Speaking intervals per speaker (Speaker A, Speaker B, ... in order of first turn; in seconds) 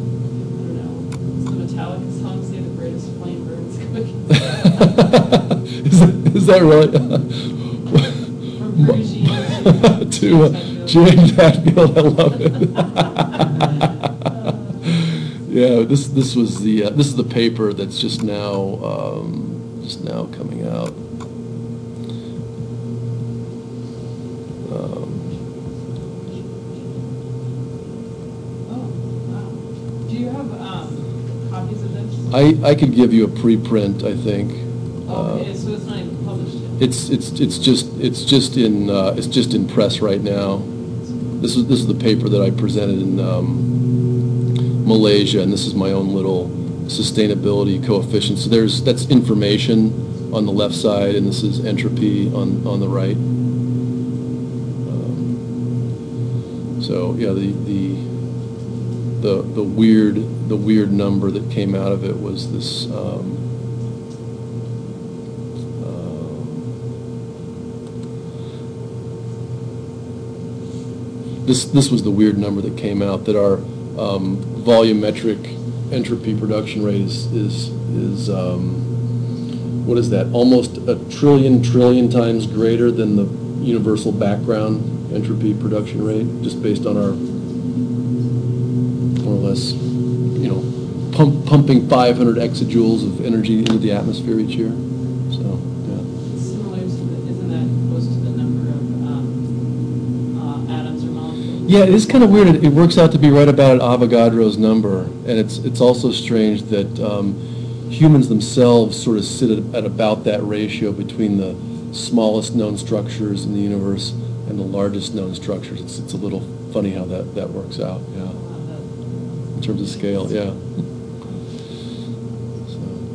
Speaker A: 0.4-5.1, 8.6-11.3, 26.3-26.9, 28.6-32.3, 35.1-36.8, 96.3-99.8, 100.3-102.9, 118.2-120.2
Speaker B: 4.5-8.3, 8.8-13.9, 14.8-21.0, 24.6-25.3, 32.3-35.5, 36.8-40.7, 41.4-43.7, 44.8-53.2, 54.8-55.4, 56.8-58.0, 59.2-63.4, 65.8-66.7, 71.4-78.9, 79.8-87.2, 89.2-89.8, 90.3-96.0, 101.7-118.4, 119.5-120.6, 122.7-123.0